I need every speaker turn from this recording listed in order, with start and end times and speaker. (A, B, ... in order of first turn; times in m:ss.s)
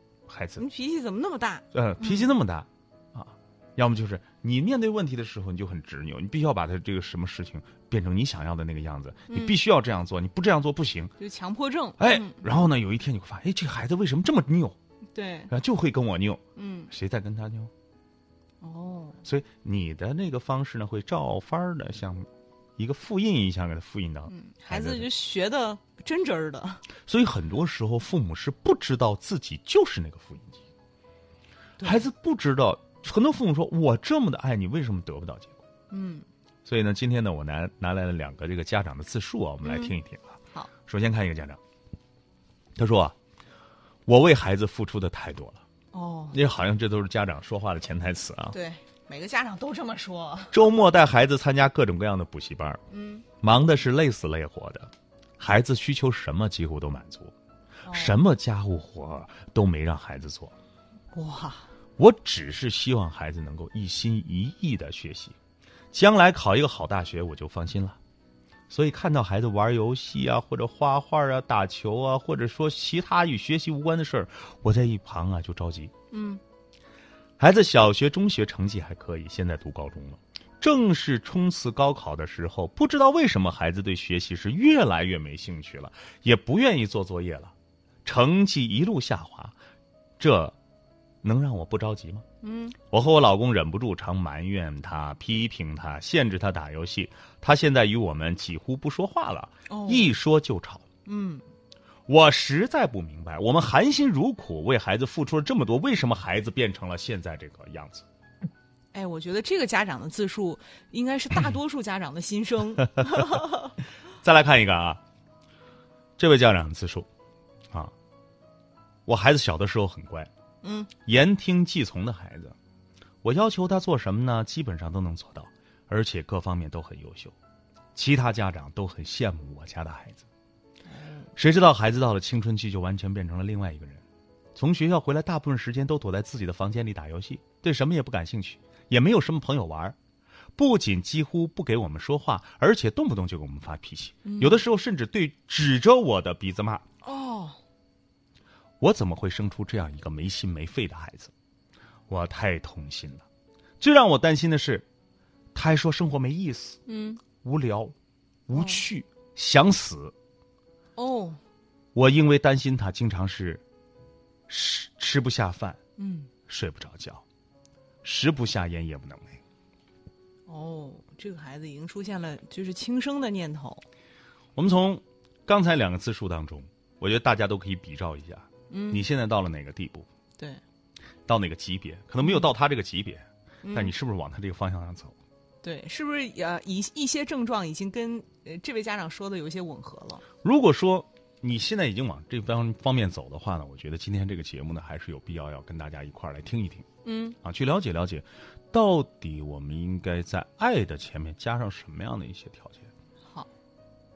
0:00.3-0:00.6 A
0:00.6-0:02.3 B
0:01.7-0:11.1 A
0:09.3-0:09.6 B
0:11.2-0:12.5 B
0:12.0-0:14.8 A
0:15.1-0:15.5 B
0:15.5-0:17.7 A
0:16.6-0:16.9 B
0:18.6-0:19.2 B
0:19.2-0:25.1 A
0:24.3-0:26.9 B
0:27.0-0:30.6 A
0:31.8-0:32.0 B
0:31.8-0:35.6 A
0:35.9-0:36.2 B
0:36.6-0:41.6 A
0:39.6-0:39.9 B
0:42.8-0:43.2 A
0:44.1-0:45.6 A
0:45.9-0:46.4 B
0:46.3-0:48.6 A
0:48.5-0:50.6 B
0:50.5-0:52.8 A
0:52.9-0:53.2 B
0:53.4-0:57.3 A
0:57.8-0:58.2 B
0:57.9-1:00.5 A
1:01.1-1:01.7 B
1:02.0-1:05.4 A
1:05.9-1:08.0 A
1:08.7-1:15.9 A
1:16.1-1:16.4 B
1:17.4-1:27.5 A
1:28.0-1:29.6 A
1:30.2-1:30.6 A
1:31.2-1:32.2 A
1:32.4-1:32.8 B
1:32.8-1:40.8 A
1:39.7-1:40.1 B
1:41.0-1:41.4 B
1:42.1-1:48.0 A
1:48.9-1:53.7 B
1:53.0-1:53.4 A
1:54.2-1:55.0 A
1:56.2-1:57.1 A
1:59.0-2:00.3 A
2:00.6-2:00.9 B
2:01.0-2:02.5 A
2:03.2-2:07.3 A
2:07.9-2:10.2 A
2:10.9-2:11.3 B
2:11.4-2:14.0 A
2:14.5-2:20.0 A
2:20.6-2:26.8 A
2:24.2-2:24.6 B
2:27.0-2:27.6 B
2:28.8-2:31.3 A
2:32.1-2:33.2 A
2:33.8-2:34.8 A
2:35.5-2:36.8 A
2:36.9-2:37.2 B
2:37.4-2:37.9 A
2:38.5-2:40.1 A
2:38.5-2:38.8 B
2:41.0-2:41.4 B
2:41.9-2:43.6 A
2:44.5-2:45.8 A
2:46.0-2:46.3 B
2:46.5-2:47.2 A
2:48.0-2:49.4 A
2:50.5-2:53.8 B
2:54.6-3:00.1 A
2:58.7-2:59.0 B
3:01.3-3:05.1 A
3:03.6-3:03.9 B
3:05.6-3:10.2 B
3:10.4-3:16.8 A
3:17.0-3:17.4 B
3:17.4-3:22.9 A